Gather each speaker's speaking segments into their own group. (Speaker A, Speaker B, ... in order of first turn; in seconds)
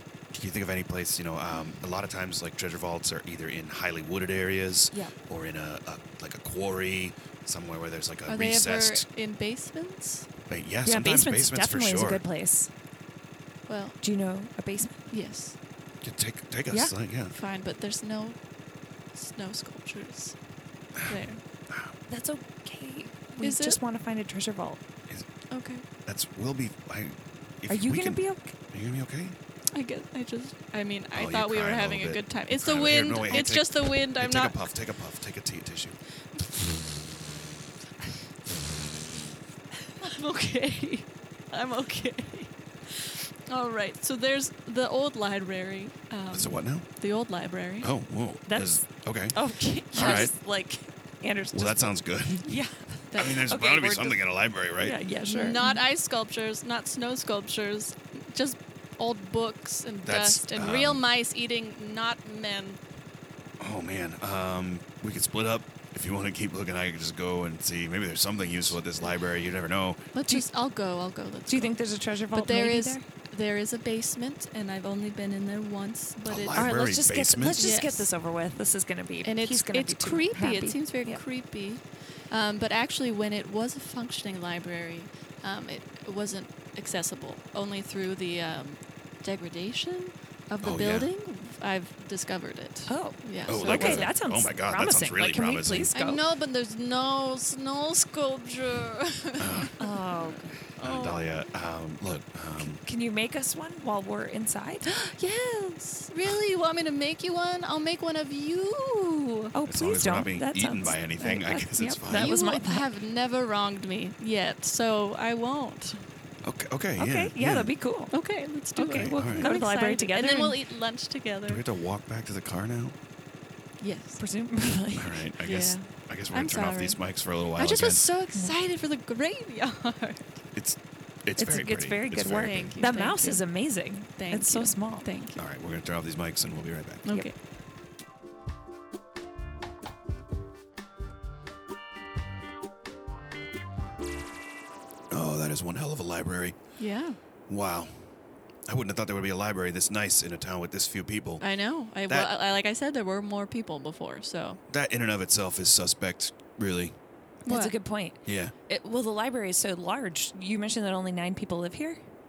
Speaker A: 0.3-9.1, 10.5-12.2, 16.0-17.3, 21.0-21.9, 26.1-29.4, 31.1-36.0, 46.3-46.9, 47.8-49.4, 49.9-50.3, 51.5-52.5, 53.2-55.0, 60.0-61.0, 63.6-70.1, 76.3-77.8, 90.6-91.1, 93.5-95.9, 99.4-99.7, 100.8-102.8, 109.7-112.3, 116.4-117.7, 118.9-119.5, 121.5-123.0, 125.0-128.1, 130.6-132.8, 135.4-137.1, 145.1-146.6, 147.5-147.9, 148.7-151.4, 152.1-152.3, 154.7-156.9, 158.3-158.5
Speaker B: 8.3-10.3, 13.7-14.0, 15.1-15.6, 17.3-18.4, 19.1-20.4, 21.1-21.4, 23.4-23.8, 25.5-25.9, 29.7-34.6, 40.0-47.9, 49.4-50.3, 53.1-53.5, 55.2-62.8, 70.1-71.8, 72.3-76.7, 77.6-78.1, 79.2-94.1, 95.9-101.2, 104.9-109.5, 112.1-116.0, 118.1-121.6, 123.8-124.2, 125.4-127.0, 127.6-130.4, 132.2-133.5, 134.2-135.4, 137.1-137.4, 146.8-147.2, 151.4-154.6, 157.5-157.7
Speaker C: 10.8-12.7, 14.0-15.1, 22.1-24.8, 27.7-28.6, 33.2-33.6, 48.5-54.2, 54.8-55.8, 71.5-73.0, 76.5-81.2, 92.9-96.2, 99.8-100.6, 102.6-104.8, 109.5-112.8, 117.0-118.1, 118.8-120.6, 124.2-125.3, 131.4-135.1, 157.5-162.0